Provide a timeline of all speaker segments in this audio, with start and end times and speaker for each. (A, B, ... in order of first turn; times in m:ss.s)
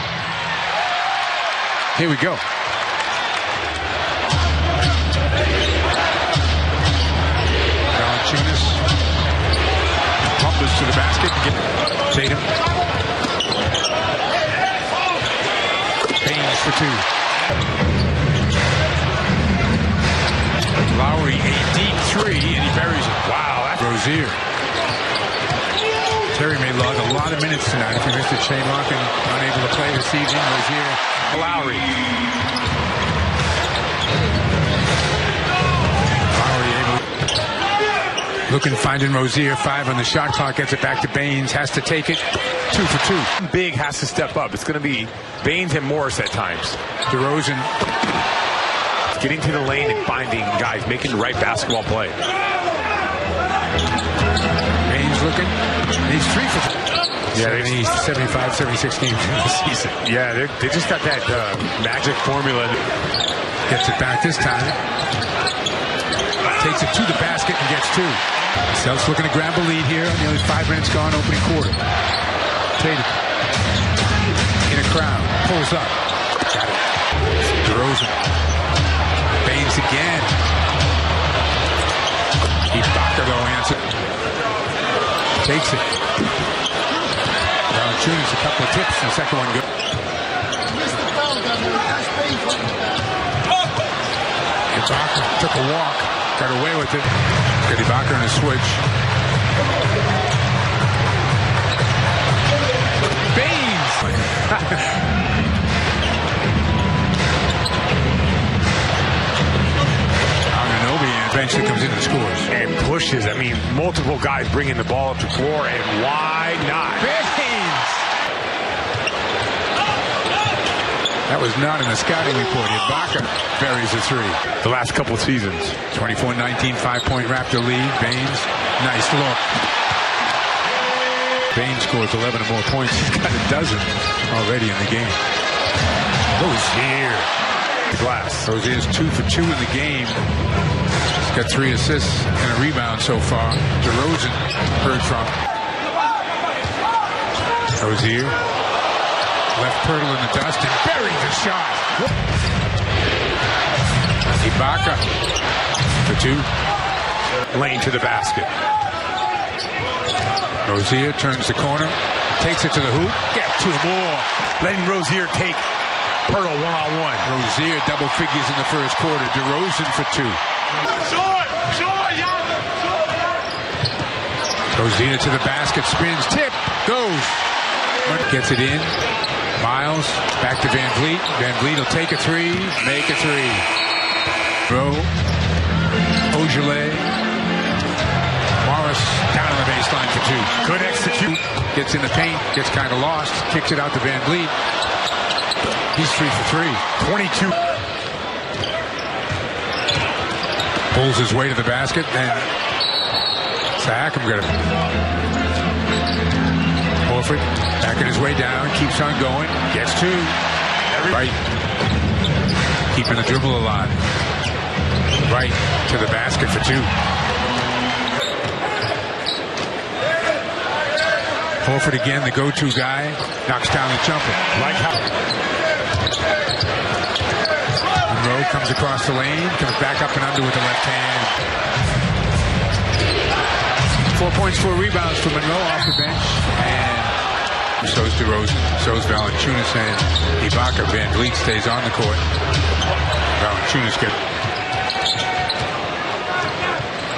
0:01.9-0:02.4 A
0:07.9-0:08.8 A
0:10.4-0:12.5 A
0:16.2-0:17.0 A
0:20.9-0:24.4 A
0:23.2-0:23.9 B
0:26.3-0:31.2 A
0:31.3-0:31.9 B
0:36.3-0:37.0 A
0:38.5-0:43.3 A
0:43.4-0:46.8 B
0:47.1-0:47.7 A
0:49.1-0:52.2 B
0:54.8-0:56.7 A
0:57.3-0:57.8 B
0:57.3-1:00.0 A
1:00.0-1:02.8 B
1:03.7-1:04.8 A
1:06.5-1:11.8 A
1:12.8-1:13.1 A
1:14.6-1:16.0 A
1:16.5-1:16.8 A
1:17.5-1:18.2 A
1:19.4-1:20.4 A
1:22.7-1:23.8 A
1:25.4-1:25.9 A
1:27.7-1:29.6 A
1:34.7-1:38.8 A
1:43.3-1:45.0 A
1:50.5-1:52.5 A
1:52.5-1:57.1 B
1:57.0-1:58.0 A
2:01.3-2:04.4 A
2:04.6-2:05.8 B
2:05.9-2:09.5 A
2:11.5-2:15.2 A
2:16.3-2:17.3 A
2:17.9-2:18.5 B
2:18.4-2:20.2 A
2:21.2-2:25.4 A
2:27.8-2:28.4 A
2:29.5-2:32.0 A
2:34.4-2:35.0 A
2:36.0-2:36.5 A
2:37.5-2:38.5 B
2:40.6-2:44.3 A
2:44.6-2:45.6 B
2:46.2-2:47.3 B
2:47.2-2:50.4 A
2:54.7-2:57.5 A
2:58.0-2:59.0 A
2:59.6-3:03.7 A
3:04.6-3:05.1 A
3:06.3-3:07.0 A
3:08.6-3:10.5 A
3:10.6-3:11.3 B
3:11.3-3:14.5 A
3:15.9-3:16.9 A
3:17.0-3:17.6 B
3:20.9-3:22.5 A
3:23.8-3:24.6 A
3:27.0-3:30.4 A
3:30.9-3:31.2 B
3:31.0-3:31.4 A
3:32.9-3:34.0 A
3:35.2-3:36.9 A
3:41.6-3:44.4 A
3:44.5-3:45.0 B
3:48.1-3:51.4 A
3:54.1-3:57.2 A
3:57.8-4:02.2 A
4:03.4-4:04.2 A